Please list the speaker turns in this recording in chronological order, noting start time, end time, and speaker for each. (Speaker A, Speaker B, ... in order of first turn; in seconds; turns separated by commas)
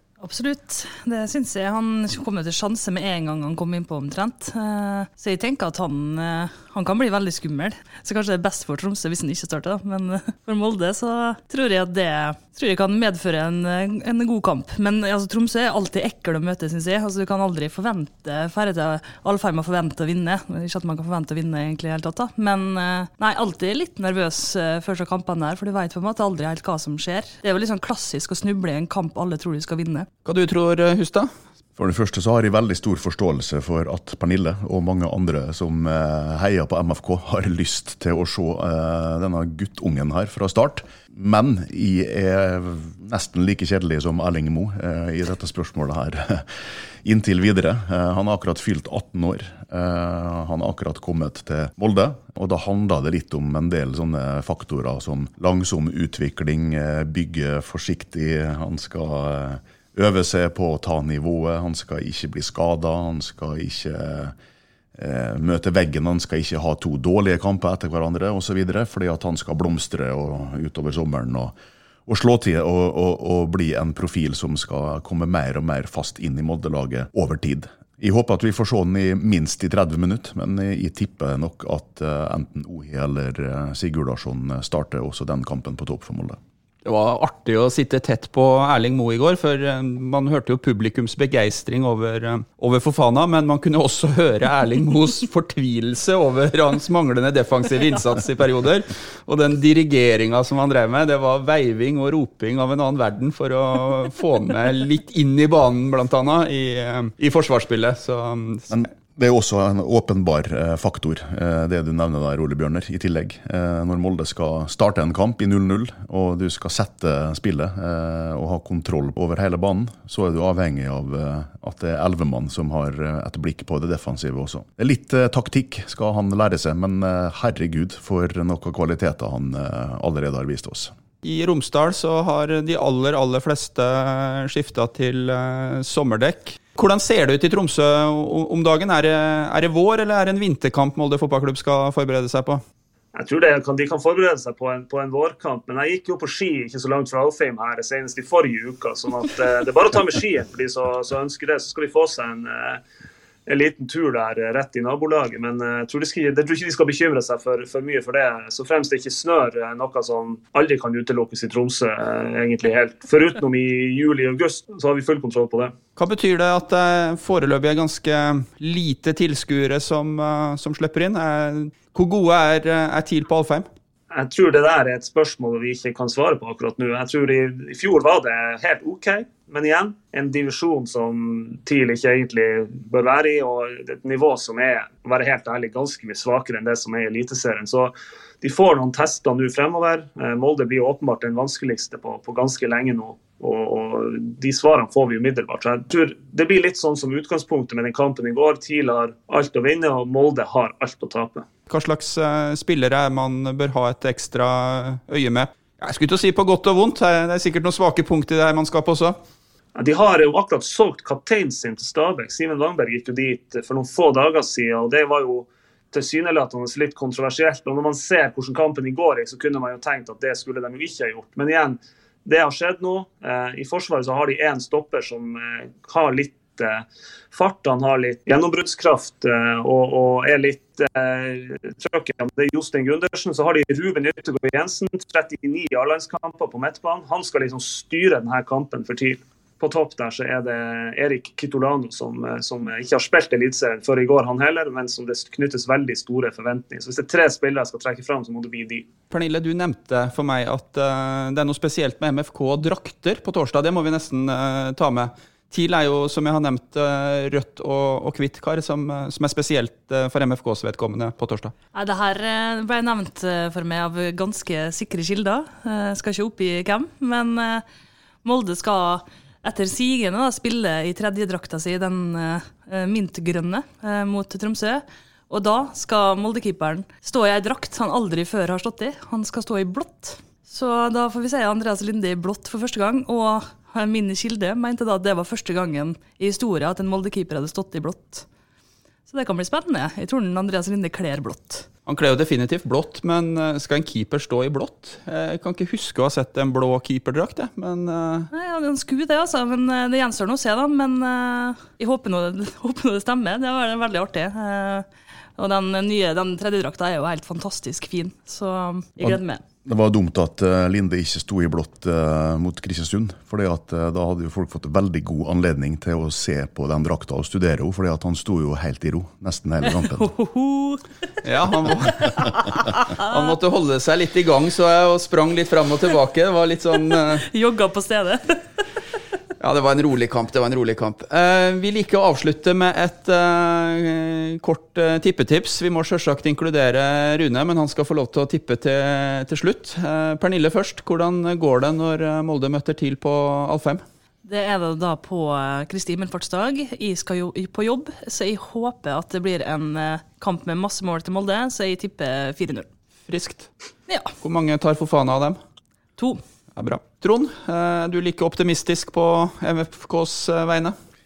Speaker A: 0.2-30.1, Speaker B: 30.2-31.3, Speaker C: 31.8-46.5, Speaker C: 47.0-64.3, Speaker C: 65.0-71.5, Speaker C: 72.0-86.4, Speaker B: 86.8-108.8, Speaker C: 108.7-130.9, Speaker B: 131.2-142.6, Speaker D: 143.1-152.8, Speaker D: 153.4-165.7, Speaker B: 165.9-173.7, Speaker D: 174.1-201.5, Speaker B: 201.7-209.2, Speaker D: 209.8-248.9, Speaker B: 249.1-261.5, Speaker A: 261.7-267.6, Speaker A: 268.2-288.2, Speaker A: 289.1-291.7, Speaker B: 291.9-298.3, Speaker A: 298.3-304.9, Speaker A: 305.4-309.4, Speaker C: 309.0-320.1, Speaker A: 319.7-320.8, Speaker B: 321.2-322.3, Speaker B: 322.9-327.2, Speaker A: 327.2-328.6, Speaker B: 329.4-343.8, Speaker A: 344.2-352.7, Speaker B: 353.1-353.5, Speaker A: 353.9-354.1, Speaker B: 354.2-355.4, Speaker A: 356.0-356.2, Speaker B: 356.6-360.7